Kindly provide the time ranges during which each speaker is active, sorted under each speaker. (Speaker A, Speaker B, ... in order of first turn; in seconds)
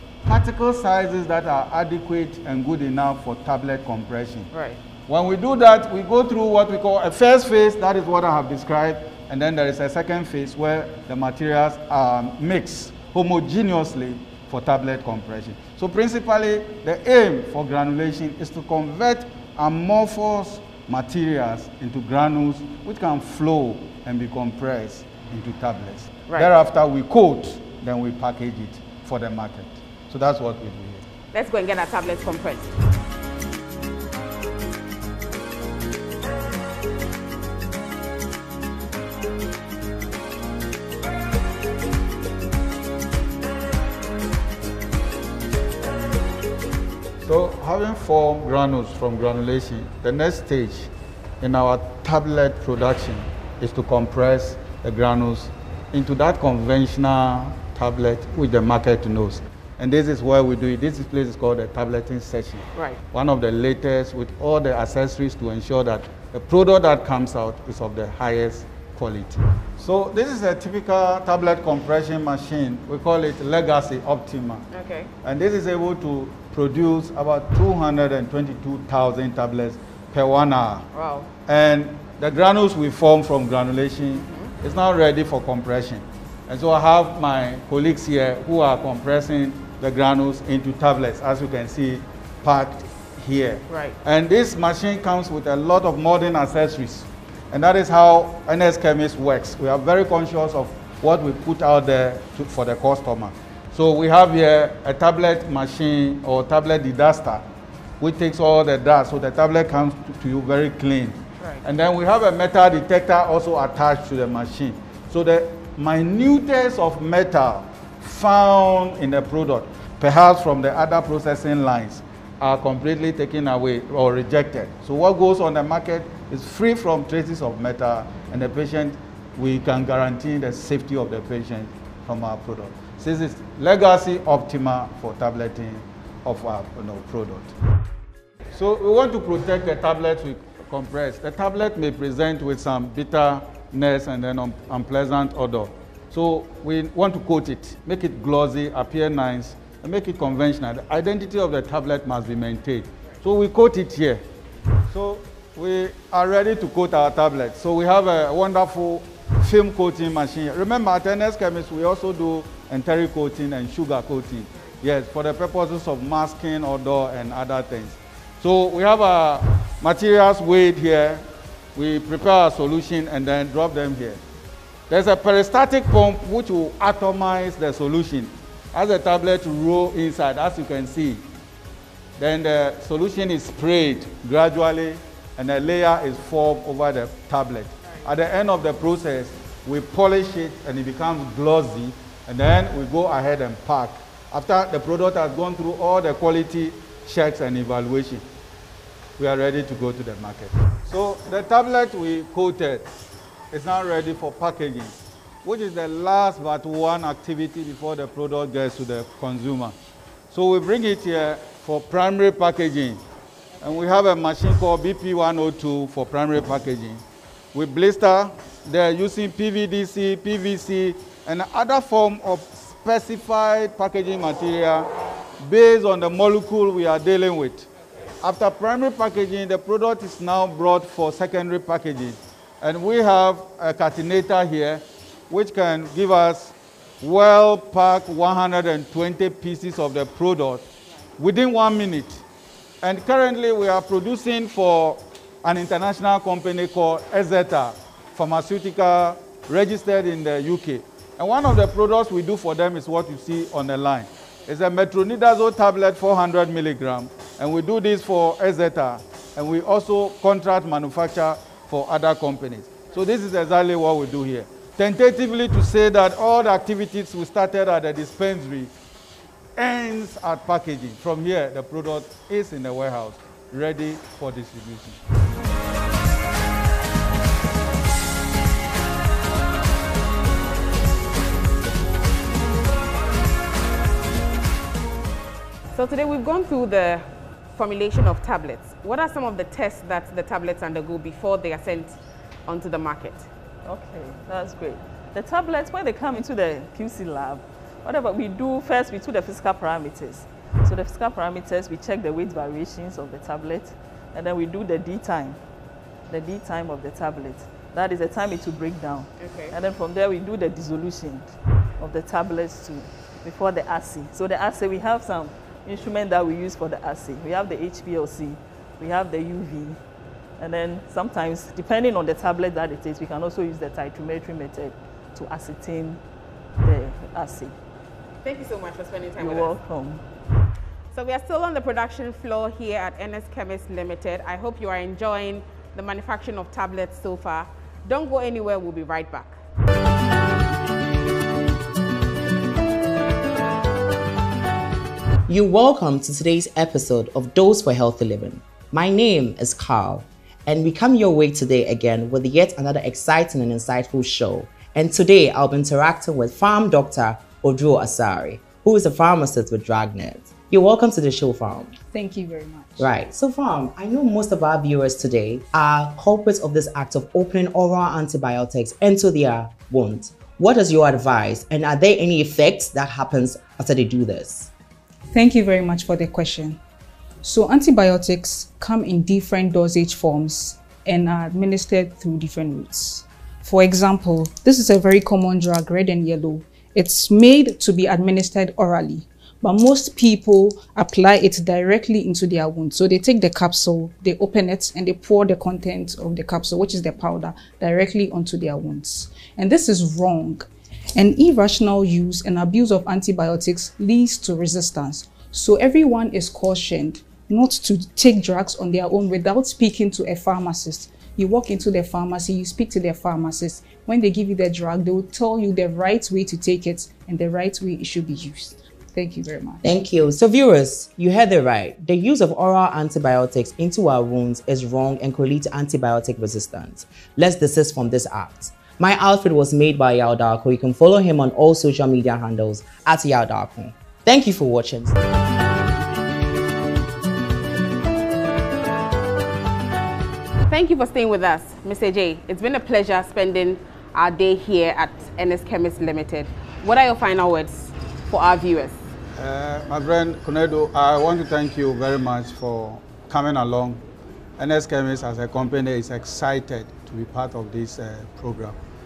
Speaker A: 0.2-4.5, 5.1-31.1, 47.2-50.9, 51.4-74.7, 75.2-80.9, 81.5-107.5, 108.0-137.5, 138.5-154.2, 154.9-174.2, 174.9-181.2, 182.2-198.2, 199.2-202.9, 203.5-209.8, 210.3-213.0, 213.6-217.0, 217.5-224.9, 225.4-227.7, 228.2-240.7, 241.2-242.2, 242.8-268.7, 269.6-275.0, 449.2-453.8, 454.4-458.6
Speaker B: 4.5-4.8, 31.3-32.7, 62.8-63.0, 74.7-75.1, 80.9-81.3, 93.7-94.0, 111.4-111.7, 285.7-293.3, 309.2-309.5, 328.2-329.5, 330.9-339.4, 440.5-448.8
Speaker C: 293.6-305.4, 306.1-319.8, 320.4-326.0, 326.6-327.5, 329.2-330.0
Speaker D: 345.3-361.8, 362.8-374.5, 419.6-435.0
Speaker E: 361.8-362.9, 375.1-376.6, 377.2-419.6